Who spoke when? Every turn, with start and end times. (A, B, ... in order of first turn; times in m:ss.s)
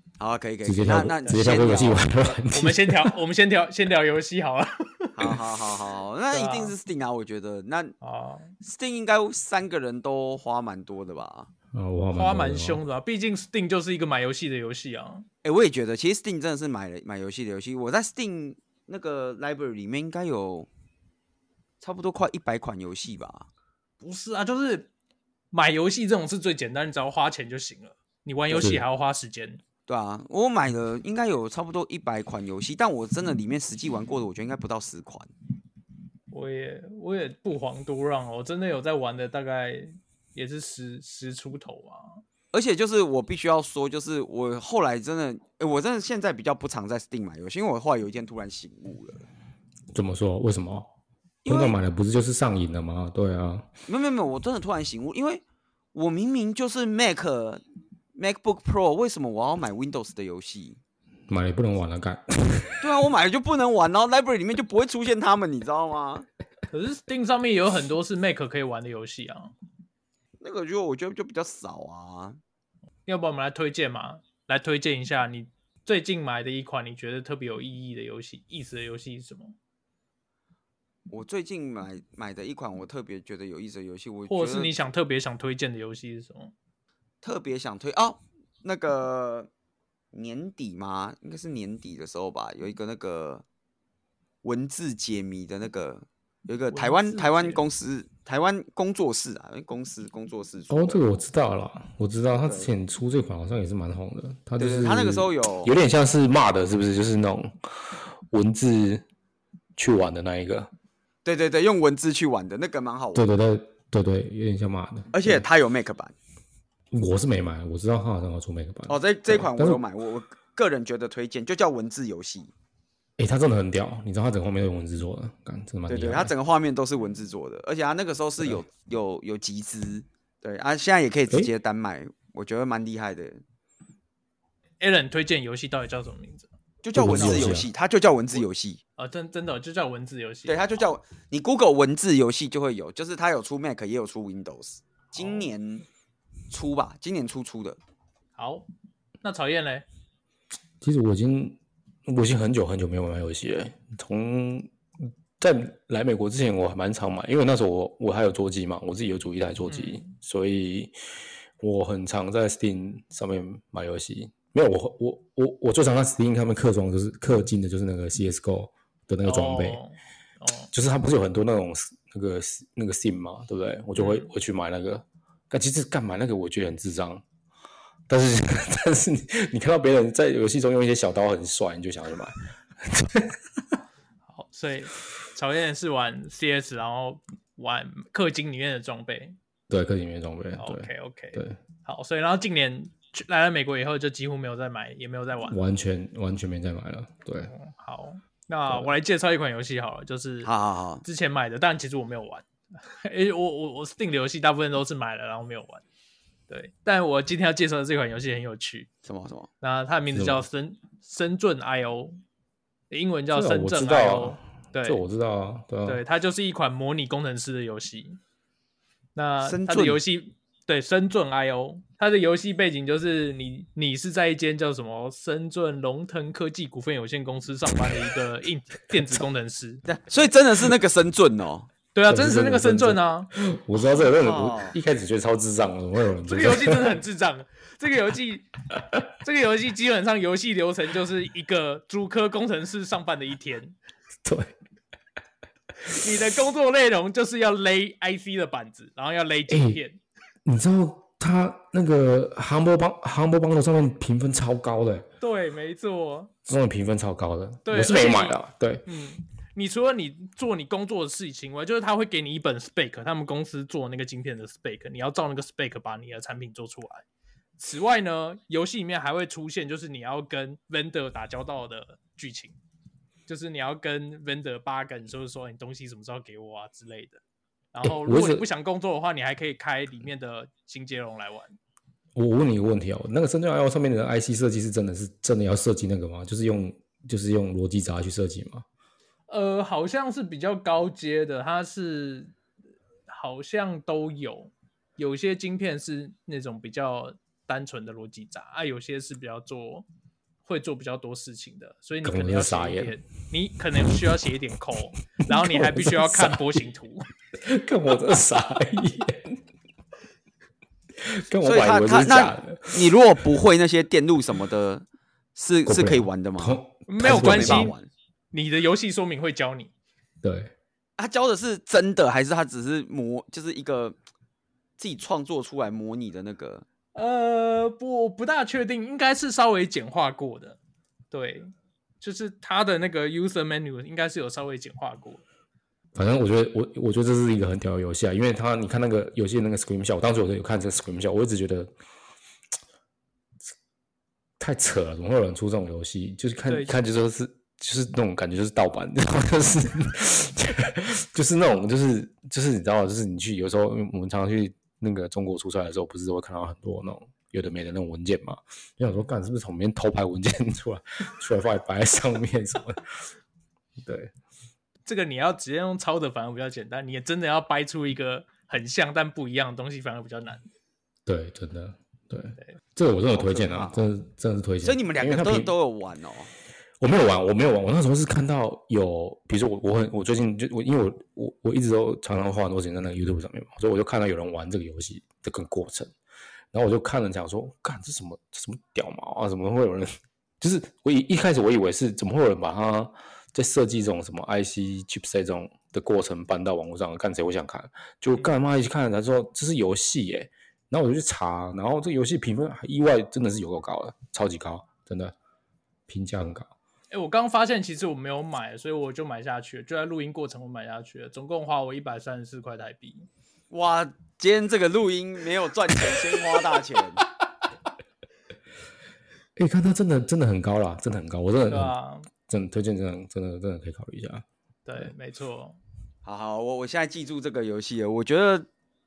0:00.2-0:02.1 A
0:00.6-0:03.2 B
0:02.5-0:05.4 C
0:05.2-0:08.0 A
0:06.3-0:06.8 C
0:08.0-0:08.5 C
0:08.6-0:11.5 A
0:11.7-0:12.8 B
0:12.1-0:15.2 C
0:15.4-0:20.7 A
0:21.8-0:23.5 A
0:24.0-0:24.9 C
0:25.5-0:29.6 C
0:28.5-0:28.8 B
0:29.9-0:35.3 A
0:36.3-0:42.2 C
0:42.5-0:49.2 A
0:49.9-0:50.9 B
0:51.4-0:51.8 A
0:51.5-0:53.7 B
0:53.9-0:57.6 A
0:58.1-1:00.8 A
1:01.3-1:02.9 B
1:02.8-1:06.3 A
1:06.7-1:09.5 C
1:10.4-1:12.4 A
1:13.0-1:19.5 C
1:21.1-1:24.8 A
1:24.3-1:26.5 C
1:27.2-1:29.5 A
1:30.1-1:33.4 A
1:34.4-1:41.0 A
1:36.7-1:37.6 C
1:40.7-1:47.5 B
1:42.4-1:42.7 A
1:44.6-1:45.7 A
1:48.3-1:49.0 B
1:49.8-1:50.7 B
1:51.2-1:53.2 A
1:53.1-1:55.4 B
1:55.1-1:56.1 A
1:56.9-1:59.8 B
1:58.9-2:02.5 A
2:03.2-2:06.3 B
2:05.9-2:13.4 A
2:14.8-2:16.5 C
2:16.8-2:18.8 A
2:16.9-2:17.7 B
2:17.1-2:17.6 C
2:19.0-2:20.8 C
2:20.5-2:25.8 A
2:25.2-2:25.5 C
2:26.5-2:27.8 A
2:28.4-2:28.7 C
2:29.2-2:29.8 C
2:30.8-2:34.7 B
2:35.4-2:40.9 B
2:39.7-2:40.1 C
2:41.6-2:49.8 B
2:49.2-2:50.7 C
2:50.7-2:57.2 B
2:54.0-2:54.3 C
2:58.1-3:03.4 B
3:04.3-3:09.4 C
3:09.7-3:11.6 B
3:10.6-3:15.6 C
3:15.5-3:17.5 B
3:17.5-3:20.5 C
3:18.7-3:18.9 B
3:20.4-3:21.0 A
3:21.0-3:25.8 C
3:26.5-3:28.9 C
3:29.0-3:29.5 A
3:29.6-3:32.2 C
3:30.1-3:30.4 B
3:32.9-3:35.0 C
3:33.3-3:36.0 B
3:35.8-3:38.2 C
3:39.1-3:49.9 C
3:39.4-3:40.0 A
3:49.9-3:51.7 A
3:51.9-3:53.3 C
3:52.1-3:57.0 B
3:54.2-3:54.8 A
3:56.2-3:58.5 C
3:59.0-4:03.8 C
4:04.2-4:04.5 B
4:05.8-4:10.0 C
4:09.5-4:09.8 B
4:10.4-4:15.1 B
4:15.2-4:16.3 C
4:16.5-4:18.8 B
4:17.6-4:27.0 C
4:27.6-4:32.6 C
4:33.3-4:37.2 C
4:37.7-4:41.6 C
4:37.8-4:38.4 B
4:42.1-4:48.6 B
4:49.3-4:52.3 C
4:53.1-4:59.9 C
5:00.4-5:07.0 C
5:02.0-5:02.9 B
5:05.3-5:06.6 B
5:07.4-5:09.4 B
5:11.0-5:12.9 B
5:11.4-5:14.8 A
5:15.4-5:17.9 A
5:15.6-5:17.7 B
5:16.9-5:17.8 C
5:18.3-5:19.7 C
5:20.2-5:20.5 B
5:21.0-5:24.0 A
5:24.8-5:26.6 A
5:26.9-5:30.6 C
5:31.1-5:35.2 C
5:35.9-5:41.7 B
5:44.4-6:02.9 B
5:46.5-5:46.8 C
6:03.8-6:04.1 B
6:04.9-6:10.4 C
6:11.0-6:15.5 B
6:13.1-6:13.8 A
6:14.6-6:16.3 A
6:16.8-6:25.9 B
6:26.5-6:45.1 B
6:45.9-6:46.5 B
6:46.9-6:53.1 C
6:53.5-6:57.0 A
6:59.4-7:01.8 B
7:01.5-7:02.1 C
7:02.3-7:04.2 B
7:04.6-7:05.6 C
7:06.0-7:08.5 A